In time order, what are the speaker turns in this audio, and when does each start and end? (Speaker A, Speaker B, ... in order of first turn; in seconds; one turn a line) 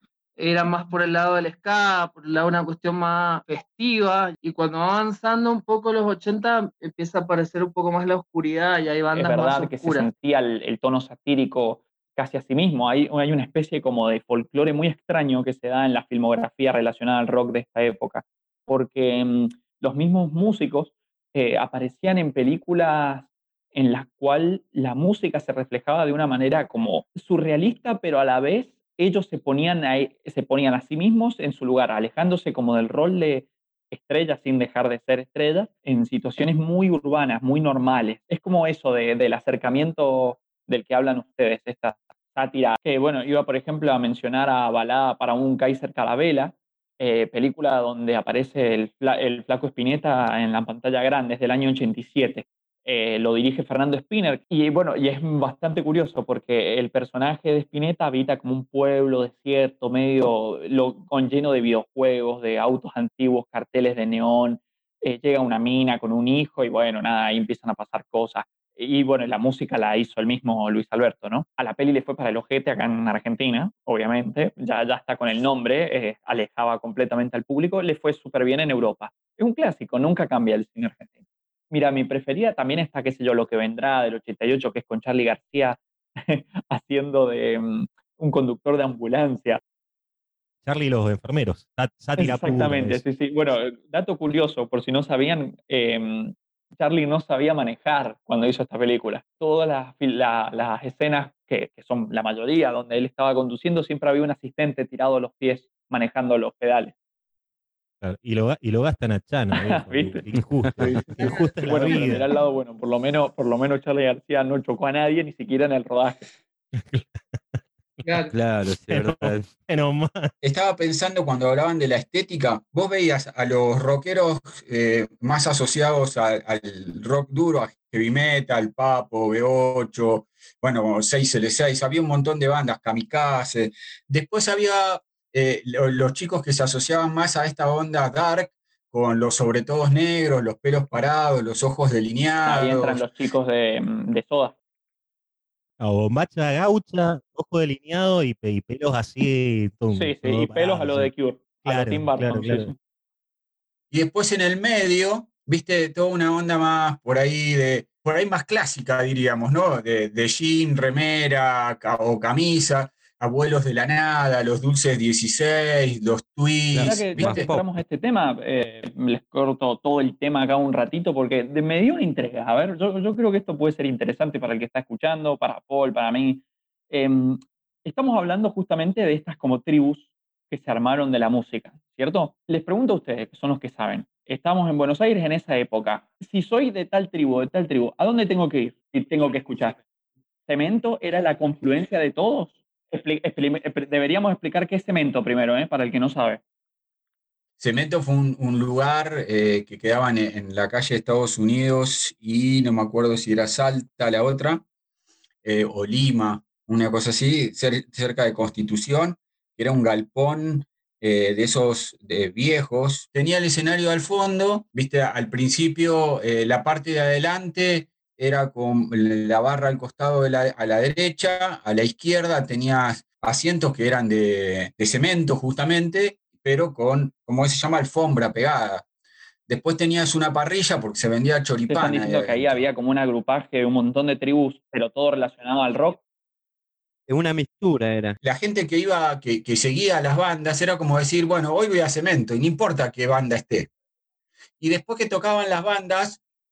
Speaker A: 0.4-10.1
Speaker B: 9.1-81.2
Speaker B: 81.7-89.6
Speaker C: 90.6-93.0
Speaker B: 92.2-106.9
Speaker C: 108.0-112.2
Speaker B: 109.6-110.2
Speaker D: 110.6-111.1
Speaker A: 111.2-112.0
Speaker B: 111.6-116.3
Speaker C: 116.7-118.2
Speaker D: 118.3-119.5
Speaker C: 118.9-120.3
Speaker E: 120.4-143.0
Speaker B: 142.4-144.5
Speaker C: 145.8-151.1
Speaker B: 149.9-152.7
Speaker C: 151.7-152.7
Speaker E: 153.9-167.5
Speaker D: 166.7-167.4
Speaker B: 166.8-189.8
Speaker B: 190.5-196.4
Speaker E: 197.6-204.6
Speaker E: 205.4-228.8
Speaker E: 229.5-232.6
Speaker B: 231.7-236.0
Speaker D: 237.1-238.2
Speaker E: 238.2-243.7
Speaker E: 244.6-246.2